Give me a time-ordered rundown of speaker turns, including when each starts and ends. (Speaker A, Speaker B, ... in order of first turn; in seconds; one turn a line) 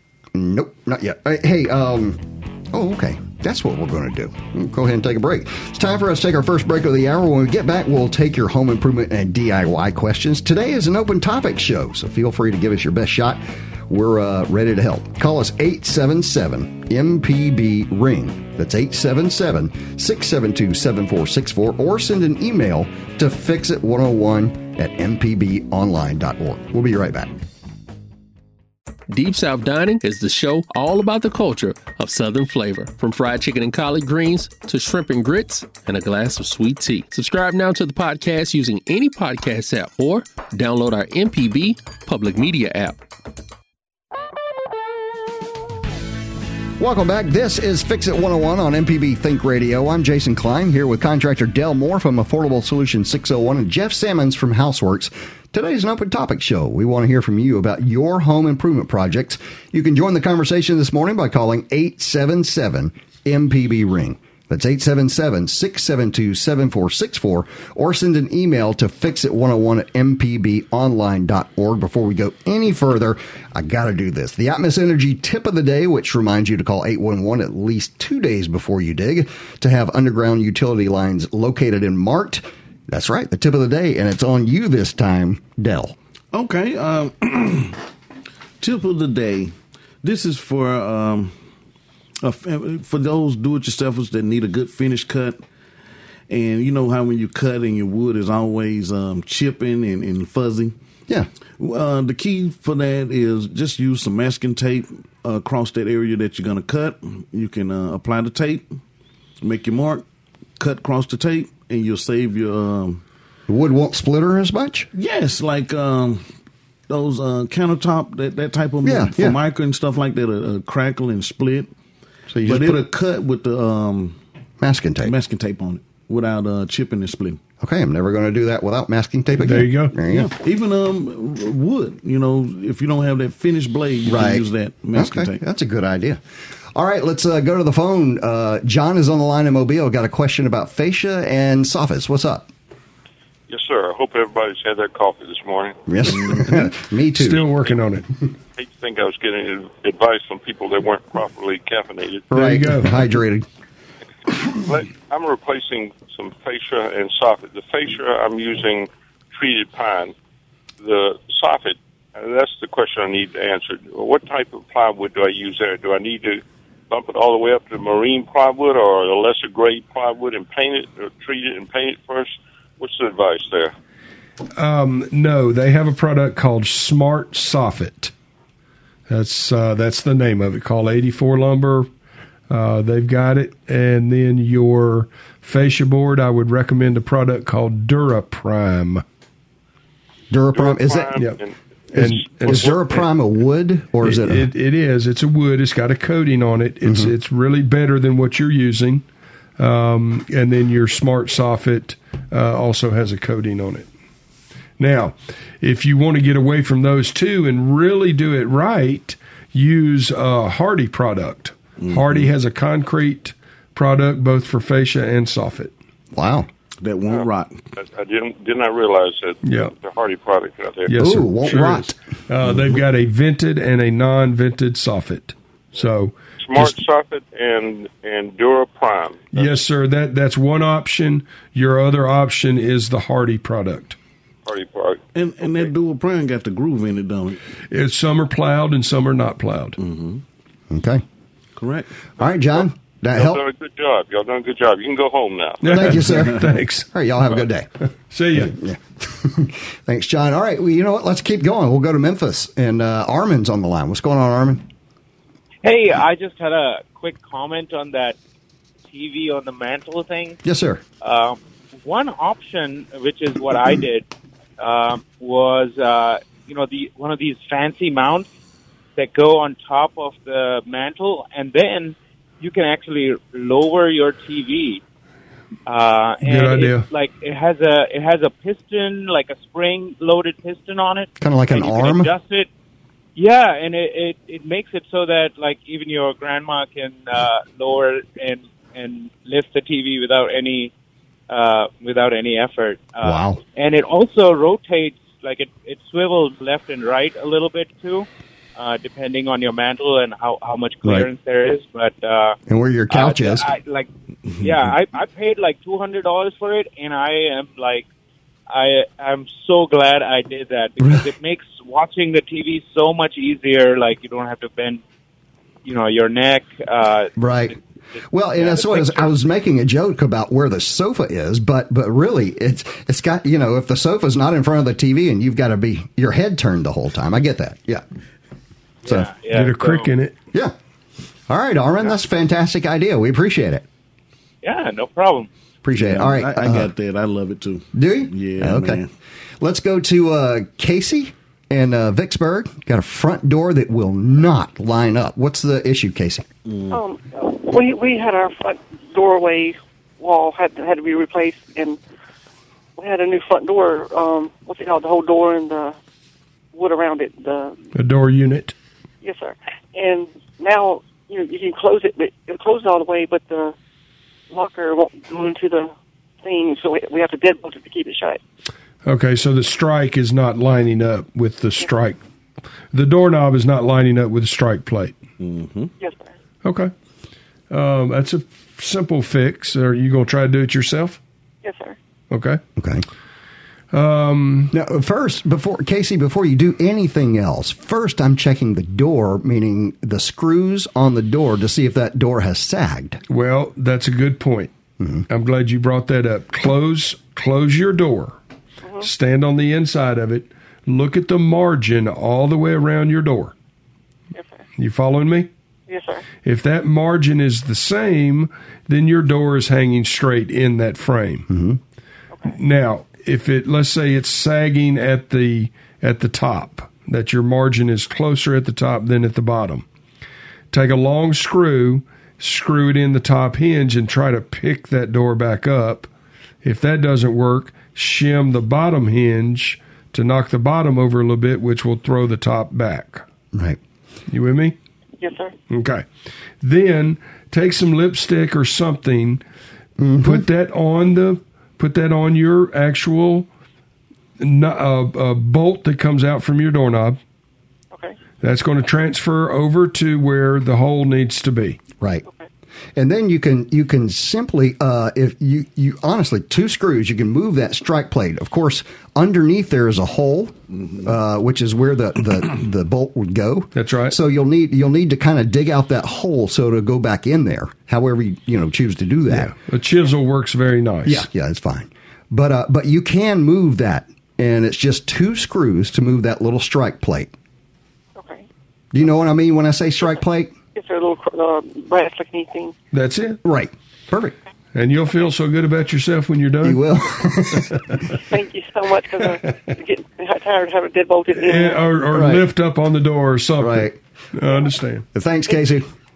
Speaker A: 0.3-27.3
Speaker B: 29.1-43.0
Speaker A: 46.8-85.9
Speaker C: 86.3-87.8
Speaker C: 88.6-91.3
Speaker C: 92.2-95.4
Speaker C: 96.3-100.7
Speaker C: 101.6-108.8
Speaker C: 109.4-110.0
Speaker C: 110.6-113.0
Speaker A: 113.5-114.9
Speaker C: 114.9-116.2
Speaker C: 116.9-121.7
Speaker A: 118.8-119.4
Speaker A: 122.3-122.8
Speaker C: 122.4-124.2
Speaker A: 124.6-125.1
Speaker C: 125.0-127.4
Speaker A: 127.6-130.3
Speaker D: 129.4-129.9
Speaker C: 130.1-135.4
Speaker A: 134.0-134.4
Speaker A: 134.9-136.2
Speaker A: 136.7-142.5
Speaker E: 143.5-145.8
Speaker A: 145.9-147.4
Speaker C: 146.1-146.5
Speaker D: 147.1-148.1
Speaker E: 148.6-152.3
Speaker A: 152.3-153.4
Speaker D: 152.3-153.0
Speaker E: 154.5-160.1
Speaker E: 160.8-173.7
Speaker D: 174.6-178.1
Speaker D: 179.1-181.9
Speaker D: 182.5-189.0
Speaker A: 190.3-191.1
Speaker E: 190.5-192.8
Speaker D: 191.9-193.0
Speaker A: 191.9-194.5
Speaker D: 194.0-199.0
Speaker A: 196.8-197.1
Speaker D: 199.6-203.9
Speaker D: 204.8-215.7
Speaker C: 211.8-212.3
Speaker A: 216.1-216.5
Speaker C: 216.8-217.6
Speaker E: 217.1-220.9
Speaker D: 219.4-219.7
Speaker D: 220.9-226.8
Speaker A: 221.0-221.9
Speaker E: 226.4-229.6
Speaker D: 229.3-234.0
Speaker E: 234.4-235.7
Speaker C: 235.1-237.4
Speaker D: 237.7-239.8
Speaker C: 239.8-240.2
Speaker A: 240.7-241.0
Speaker C: 241.6-241.9
Speaker A: 242.2-243.4
Speaker E: 243.1-246.0
Speaker D: 245.6-246.9
Speaker A: 245.7-247.7
Speaker D: 248.1-248.5
Speaker A: 248.3-254.7
Speaker F: 255.6-258.1
Speaker F: 258.9-260.4
Speaker A: 260.4-260.8
Speaker F: 261.0-264.0
Speaker F: 264.6-268.3
Speaker F: 268.9-274.8
Speaker F: 275.6-282.5
Speaker D: 276.2-276.9
Speaker A: 281.2-282.1
Speaker F: 283.1-290.7
Speaker F: 291.3-302.4
Speaker A: 293.0-293.4
Speaker A: 302.5-303.5
Speaker F: 302.9-303.9
Speaker F: 304.4-307.9
Speaker F: 308.5-314.8
Speaker F: 315.6-317.1
Speaker A: 317.2-317.5
Speaker F: 317.9-319.1
Speaker A: 318.1-327.8
Speaker F: 328.8-329.9
Speaker D: 329.3-330.1
Speaker A: 331.3-333.6
Speaker F: 334.4-335.3
Speaker A: 335.6-336.7
Speaker C: 335.8-338.9
Speaker A: 337.7-338.8
Speaker A: 339.4-346.3
Speaker C: 346.4-346.8
Speaker G: 346.7-351.8
Speaker G: 352.8-355.8
Speaker G: 356.5-357.6
Speaker D: 357.7-358.5
Speaker G: 359.0-363.5
Speaker G: 364.3-368.2
Speaker D: 368.8-372.0
Speaker D: 372.7-375.0
Speaker C: 375.2-375.7
Speaker G: 375.8-376.1
Speaker D: 376.4-376.7
Speaker D: 377.5-381.0
Speaker G: 381.4-381.8
Speaker D: 382.1-382.4
Speaker A: 382.6-382.8
Speaker D: 383.7-384.5
Speaker A: 384.5-393.0
Speaker D: 393.1-394.5
Speaker A: 394.8-395.1
Speaker D: 395.1-398.2
Speaker G: 398.6-398.9
Speaker D: 398.8-403.3
Speaker G: 404.1-404.4
Speaker D: 404.6-405.3
Speaker G: 405.7-406.1
Speaker D: 406.2-411.3
Speaker A: 411.3-411.6
Speaker D: 412.3-419.6
Speaker D: 420.5-425.9
Speaker D: 426.4-433.0
Speaker A: 433.3-433.6
Speaker D: 434.1-434.5
Speaker G: 435.0-435.3
Speaker D: 435.5-435.8
Speaker D: 436.4-439.2
Speaker A: 439.8-440.2
Speaker D: 440.0-443.3
Speaker D: 444.2-447.0
Speaker D: 448.2-451.6
Speaker A: 452.8-469.3
Speaker D: 463.5-463.9
Speaker D: 469.1-471.1
Speaker A: 470.9-477.1
Speaker G: 477.9-478.2
Speaker A: 478.7-480.3
Speaker G: 480.5-482.5
Speaker D: 482.7-483.2
Speaker A: 483.2-484.1
Speaker D: 484.5-486.6
Speaker A: 486.4-487.6
Speaker G: 488.0-491.8
Speaker D: 491.1-494.8
Speaker A: 491.9-492.2
Speaker A: 493.4-493.8
Speaker A: 494.9-495.7